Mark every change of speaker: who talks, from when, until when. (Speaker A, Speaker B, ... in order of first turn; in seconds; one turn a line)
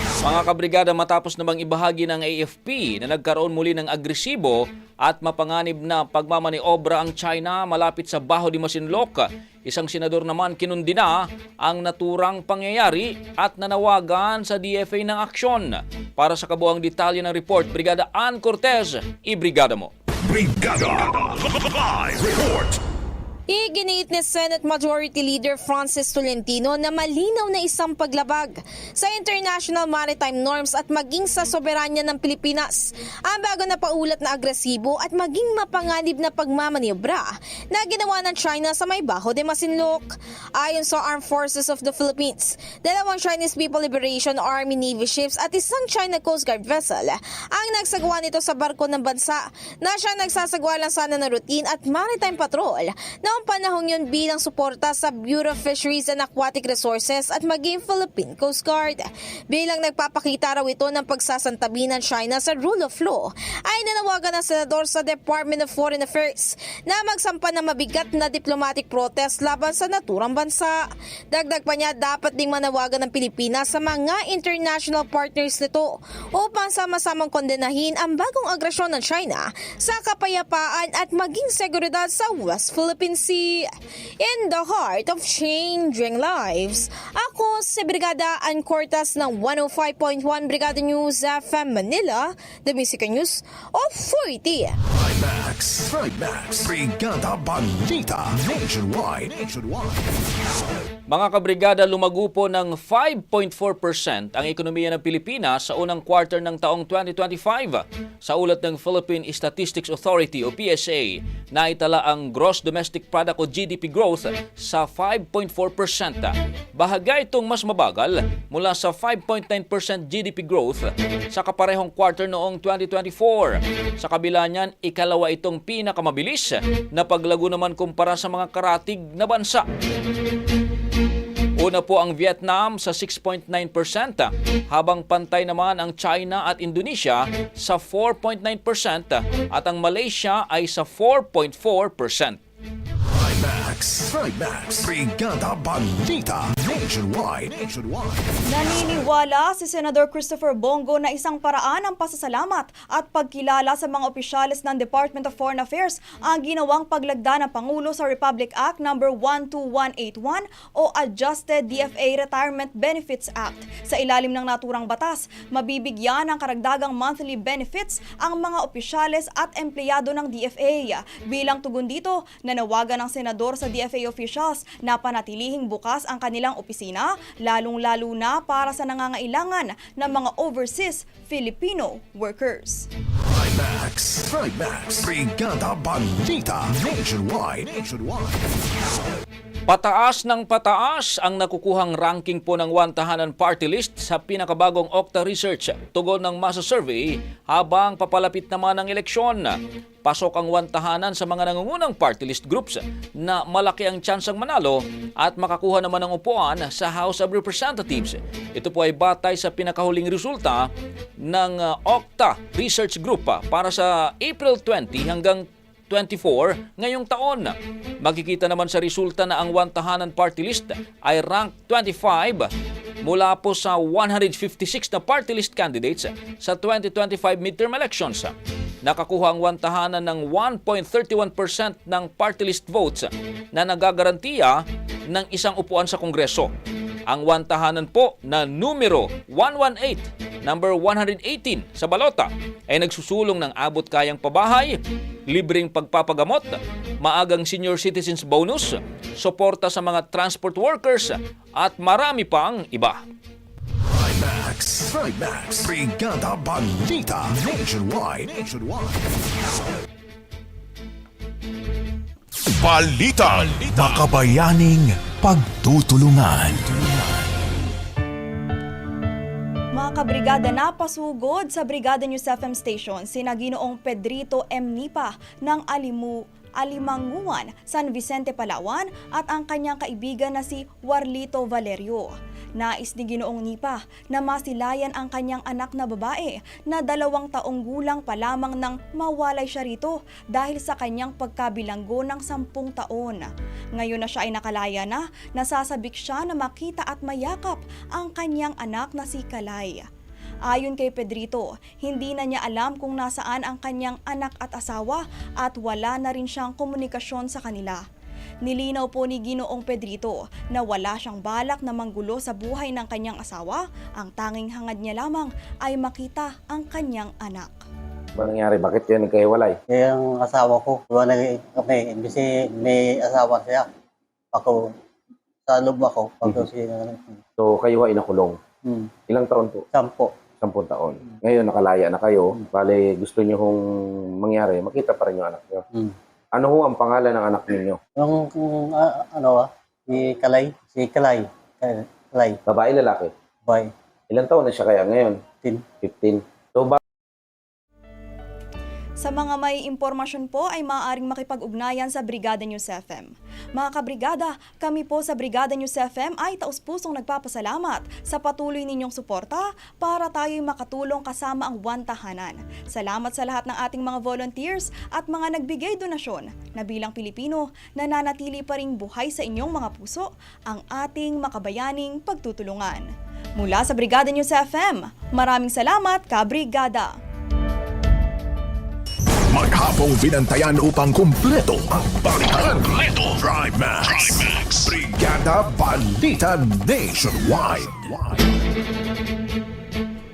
Speaker A: 0.2-19.9
Speaker B: 20.2-22.8
Speaker C: 23.5-70.8
Speaker C: 71.3-94.8
Speaker B: 94.9-100.2
Speaker A: 101.1-129.6
Speaker A: 131.6-142.4
Speaker B: 143.0-148.2
Speaker D: 148.5-182.9
Speaker B: 183.2-188.5
Speaker A: 189.7-210.7
Speaker A: 211.2-222.5
Speaker A: 223.0-236.5
Speaker A: 237.1-244.8
Speaker A: 245.3-253.0
Speaker B: 253.8-259.2
Speaker B: 262.6-267.4
Speaker D: 269.7-299.9
Speaker D: 300.5-307.8
Speaker D: 308.4-317.6
Speaker E: 318.1-319.6
Speaker F: 319.7-323.7
Speaker F: 324.3-324.7
Speaker F: 325.5-327.2
Speaker E: 327.4-328.4
Speaker F: 328.6-328.9
Speaker E: 329.1-329.6
Speaker F: 329.7-330.1
Speaker E: 330.4-333.6
Speaker E: 334.2-335.6
Speaker E: 336.3-337.8
Speaker F: 338.0-342.4
Speaker E: 342.5-343.1
Speaker E: 344.1-346.8
Speaker F: 345.4-345.7
Speaker D: 349.0-372.9
Speaker D: 373.4-376.9
Speaker B: 379.3-388.2